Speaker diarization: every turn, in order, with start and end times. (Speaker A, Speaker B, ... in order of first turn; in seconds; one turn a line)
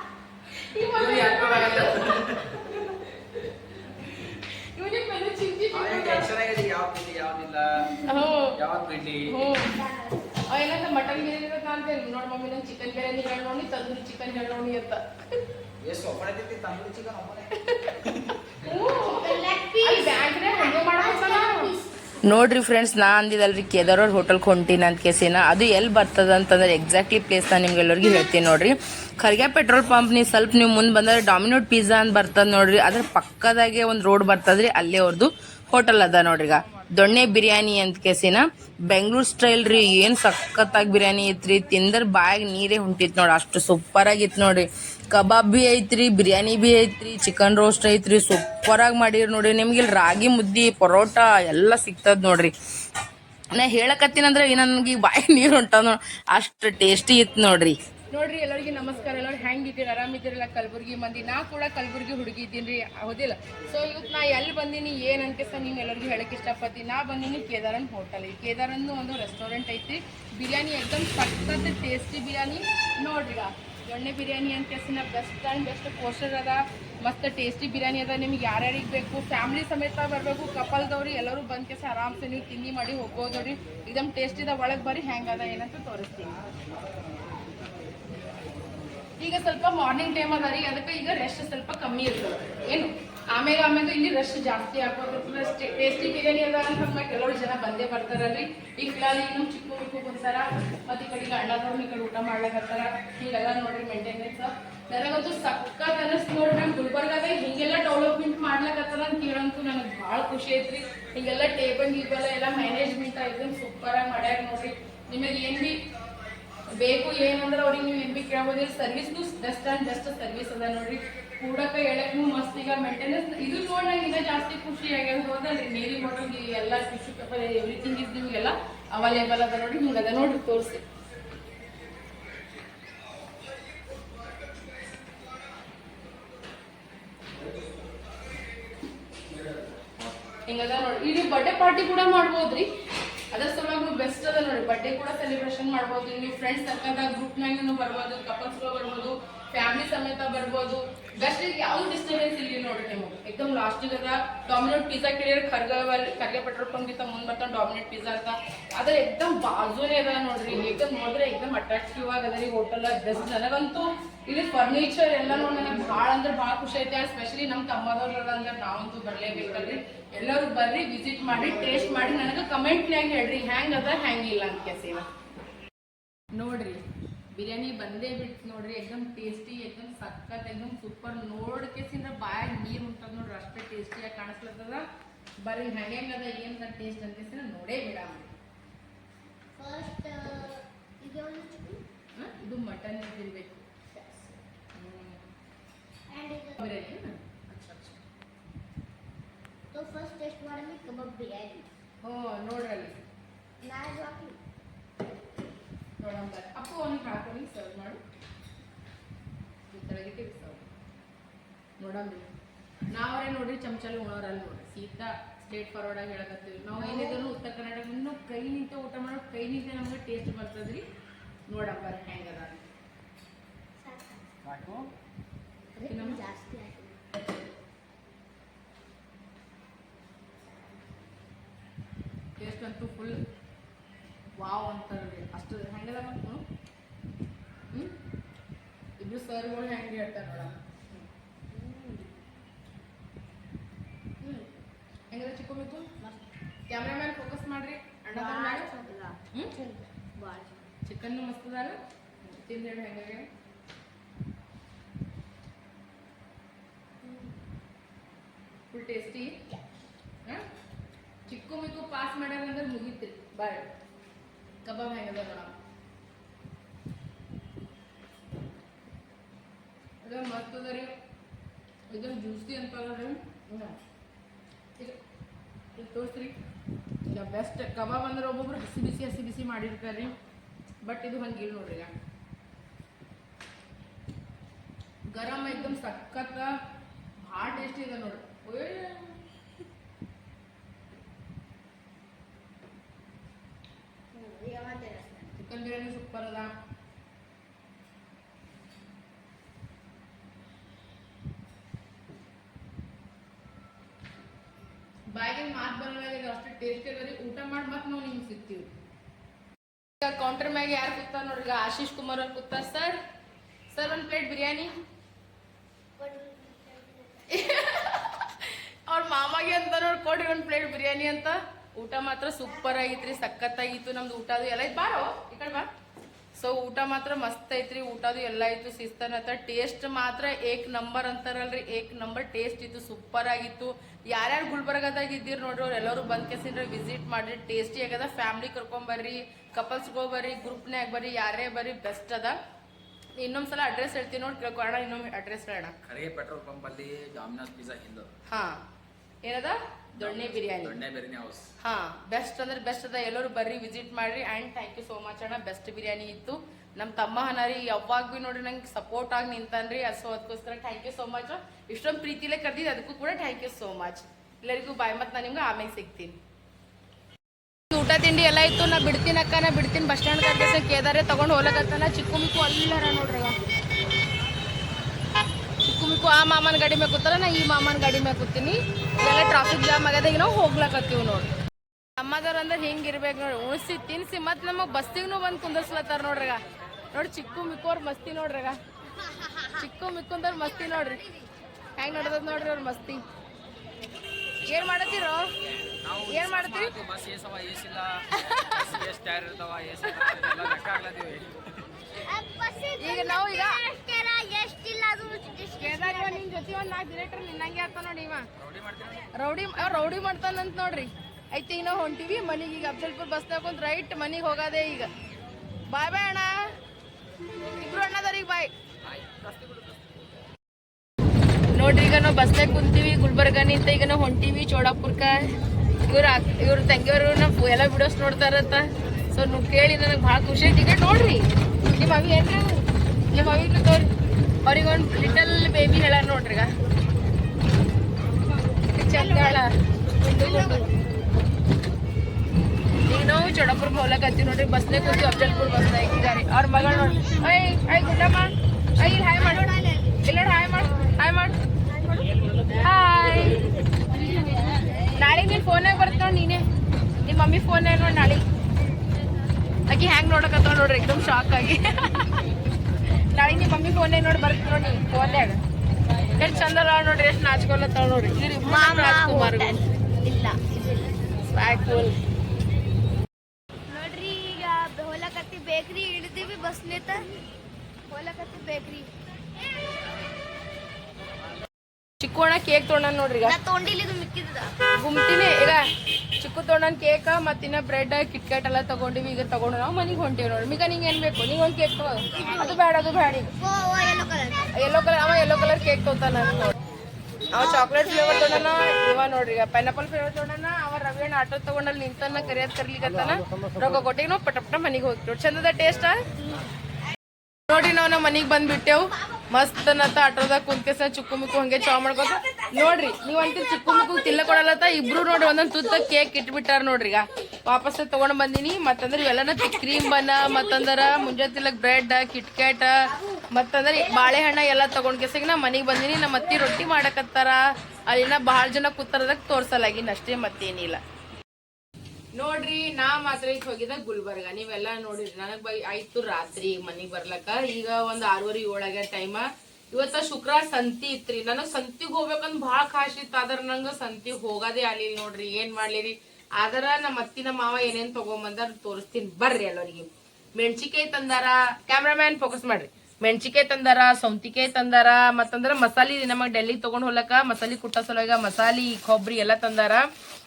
Speaker A: 0.6-3.0
Speaker B: 1.1-2.2
Speaker A: 4.1-6.3
Speaker B: 5.7-8.0
Speaker A: 8.0-8.6
Speaker B: 8.6-9.4
Speaker A: 9.3-9.8
Speaker A: 10.5-15.0
Speaker B: 15.8-17.6
Speaker A: 17.6-17.9
Speaker A: 18.6-21.7
Speaker C: 18.9-21.9
Speaker A: 22.2-52.5
Speaker A: 53.5-86.4
Speaker A: 89.2-115.8
Speaker A: 116.8-130.8
Speaker A: 140.5-142.7
Speaker A: 143.3-175.1
Speaker A: 176.3-176.8
Speaker A: 177.3-184.9
Speaker A: 185.4-188.3
Speaker C: 189.6-191.8
Speaker A: 192.1-193.6
Speaker C: 193.9-194.4
Speaker A: 194.8-195.2
Speaker C: 196.1-196.6
Speaker A: 196.6-198.0
Speaker C: 199.7-201.7
Speaker A: 202.0-203.0
Speaker C: 203.6-204.4
Speaker A: 206.0-208.0
Speaker A: 209.7-210.7
Speaker A: 211.8-212.3
Speaker A: 212.9-220.8
Speaker C: 216.8-217.3
Speaker A: 221.5-222.7
Speaker C: 223.8-224.2
Speaker B: 224.5-224.9
Speaker C: 225.8-227.0
Speaker A: 225.8-226.2
Speaker A: 232.4-233.2
Speaker A: 234.4-236.4
Speaker A: 237.7-238.0
Speaker A: 239.0-240.6
Speaker C: 241.5-242.1
Speaker C: 244.2-244.5
Speaker A: 245.1-245.9
Speaker A: 246.7-248.7
Speaker C: 248.1-250.6
Speaker A: 250.8-253.3
Speaker C: 257.0-257.3
Speaker A: 258.7-259.4
Speaker A: 261.2-263.7
Speaker A: 264.6-265.5
Speaker A: 270.0-270.9
Speaker A: 271.9-273.8
Speaker A: 275.8-276.4
Speaker A: 277.1-280.1
Speaker A: 280.8-281.9
Speaker A: 285.1-286.5
Speaker A: 287.2-289.2
Speaker C: 294.1-295.3
Speaker A: 295.4-296.5
Speaker A: 305.1-308.7
Speaker A: 310.0-313.0
Speaker A: 313.7-314.7
Speaker C: 316.0-317.4
Speaker A: 317.3-325.7
Speaker A: 326.4-342.4
Speaker A: 343.2-345.7
Speaker B: 345.8-348.1
Speaker A: 348.3-348.6
Speaker A: 349.2-350.8
Speaker B: 350.0-351.4
Speaker A: 351.6-366.2
Speaker A: 367.7-373.4
Speaker A: 375.6-381.3
Speaker A: 382.0-386.4
Speaker A: 386.9-388.6
Speaker A: 389.5-391.0
Speaker A: 391.8-393.0
Speaker A: 394.5-395.3
Speaker B: 395.8-401.4
Speaker A: 396.1-396.7
Speaker A: 399.9-400.3
Speaker C: 402.1-406.2
Speaker A: 402.8-403.6
Speaker A: 405.6-408.3
Speaker B: 408.4-409.1
Speaker A: 409.1-414.9
Speaker A: 415.7-416.4
Speaker A: 417.5-418.5
Speaker A: 421.5-425.3
Speaker A: 425.9-433.9
Speaker A: 434.4-436.5
Speaker A: 438.8-439.5
Speaker C: 438.9-439.4
Speaker C: 440.0-440.7
Speaker A: 440.1-440.7
Speaker A: 442.9-449.5
Speaker C: 444.7-445.9
Speaker C: 446.6-447.2
Speaker C: 449.2-449.9
Speaker A: 450.0-451.4
Speaker A: 452.5-453.4
Speaker C: 453.9-454.6
Speaker A: 454.9-456.4
Speaker A: 457.0-458.2
Speaker A: 459.7-462.2
Speaker A: 463.0-465.4
Speaker A: 466.2-469.6
Speaker C: 468.4-471.0
Speaker A: 471.2-472.0
Speaker C: 473.7-477.1
Speaker C: 477.9-478.9
Speaker A: 482.0-483.4
Speaker C: 483.2-484.5
Speaker A: 484.8-485.6
Speaker A: 486.2-493.3
Speaker C: 492.1-492.6
Speaker C: 493.4-494.5
Speaker A: 494.6-496.5
Speaker A: 497.3-506.0
Speaker C: 497.4-498.5
Speaker A: 507.5-522.7
Speaker A: 523.3-530.8
Speaker A: 532.1-559.8